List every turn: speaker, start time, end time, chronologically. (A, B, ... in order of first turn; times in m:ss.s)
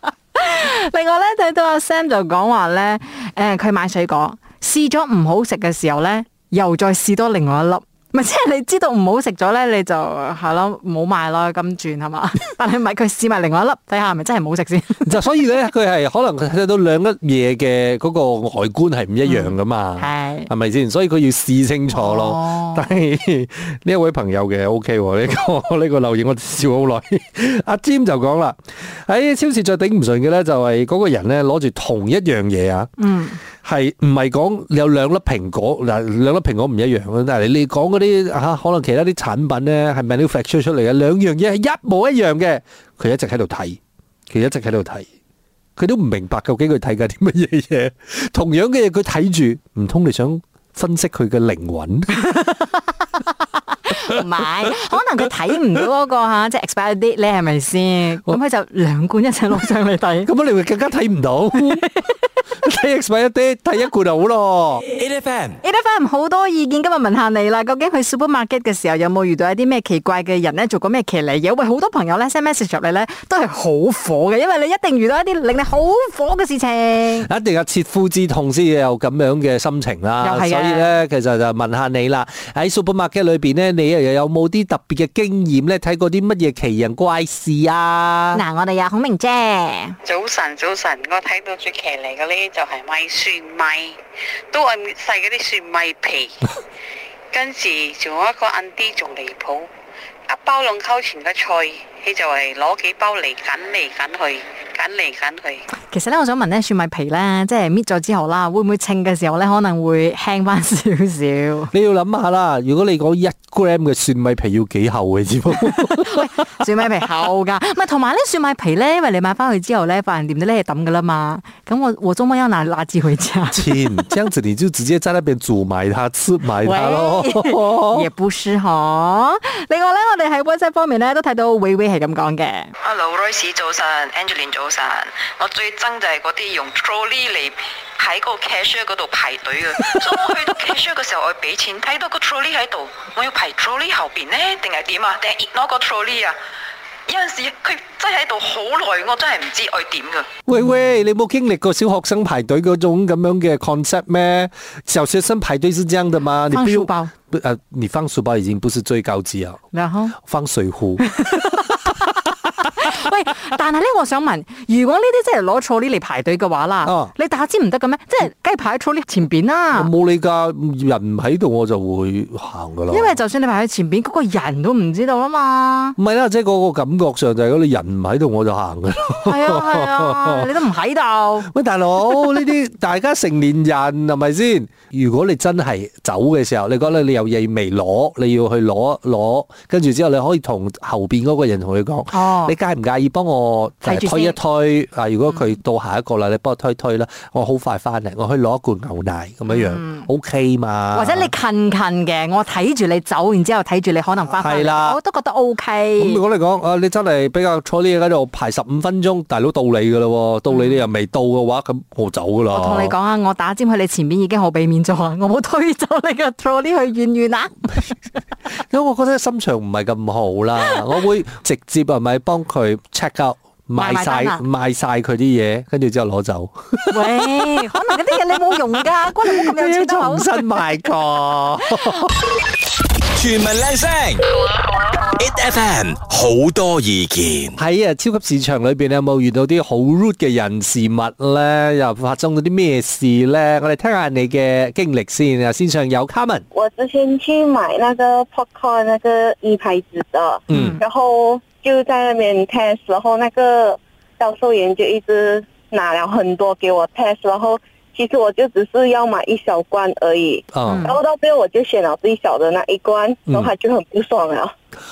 0:00.4-0:15.1 A
0:15.0-0:32.9 B
0:19.2-0:20.5 A
0:21.9-0:22.8 A
0:33.0-0:33.4 A
0:33.6-0:43.8 B
0:44.3-0:45.0 B
0:45.8-0:52.2 B
0:52.3-0:52.7 A
0:53.9-1:00.3 A
1:00.2-1:01.8 B
1:02.6-1:04.8 B
1:05.0-1:05.6 C
1:05.6-1:17.3 A
1:17.2-1:28.4 B
1:20.2-1:20.9 A
1:28.3-1:30.0 A
1:30.0-1:33.9 D
1:34.5-1:36.4 D
1:37.3-1:39.6 D
1:40.3-1:45.6 D
1:45.9-1:51.7 A
1:51.7-1:56.2 B
1:55.7-2:03.8 A
2:03.5-2:08.1 B
2:06.6-2:12.7 A
2:12.8-2:26.4 E
2:27.1-2:30.3 E
2:30.4-2:39.6 B
2:36.5-2:37.1 A
2:39.7-2:40.2 A
2:40.2-2:41.0 B
2:41.0-2:41.9 A
2:42.7-2:49.9 A
2:46.8-2:47.1 B
2:49.7-2:53.2 B
2:52.9-2:56.0 A
2:56.0-3:00.5 B
2:59.2-3:01.5 A
3:01.5-3:21.3 B
3:12.1-3:12.5 A
3:13.8-3:14.4 A
3:19.4-3:20.1 A
3:20.9-3:26.2 A
3:24.3-3:25.0 B
3:26.0-3:32.9 B
3:30.5-3:30.8 A
3:32.5-3:37.9 A
3:38.7-3:47.6 B
3:43.7-3:44.4 A
3:46.9-3:50.4 A
3:49.2-3:52.1 B
3:53.1-3:54.2 C
3:55.2-3:57.6 C
3:57.6-4:06.4 B
4:06.5-4:24.5 F
4:10.5-4:10.8 B
4:10.5-4:10.8 A
4:20.5-4:20.9 B
4:20.6-4:21.0 A